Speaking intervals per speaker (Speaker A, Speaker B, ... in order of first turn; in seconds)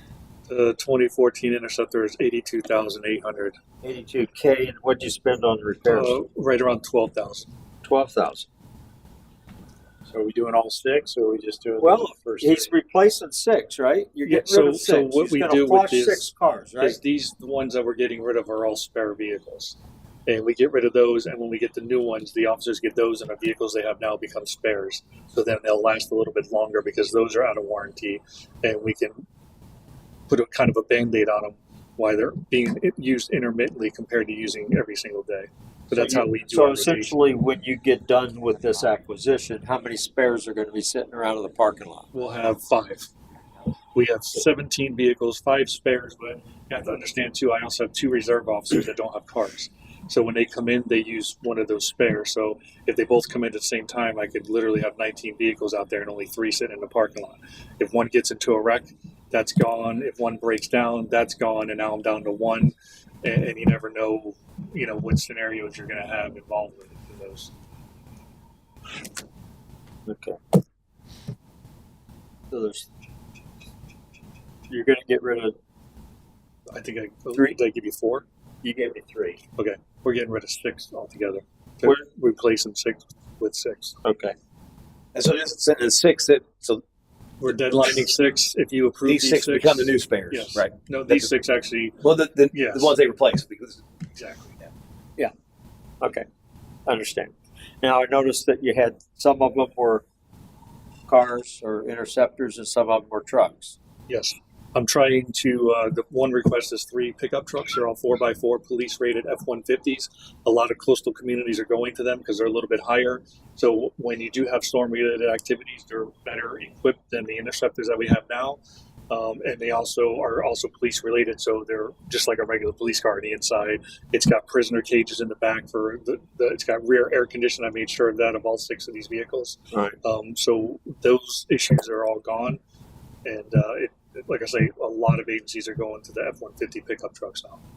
Speaker A: 0.5-3.5, 5.9-7.5, 14.2-29.2, 30.3-37.1, 42.1-43.1, 43.9-67.5, 76.7-78.2, 79.5-84.0, 87.4-92.9, 94.2-94.6, 104.1-132.6, 133.2-137.6
Speaker B: 3.8-6.2, 7.8-8.5, 11.8-17.0, 35.9-42.1, 70.0-70.4, 72.5-72.9, 74.7-75.5, 78.6-79.4, 84.0-84.3, 96.8-100.0, 101.1-103.8
Speaker C: 10.1-12.7
Speaker D: 85.1-86.8, 87.5-88.0, 89.0-91.3, 92.0-93.8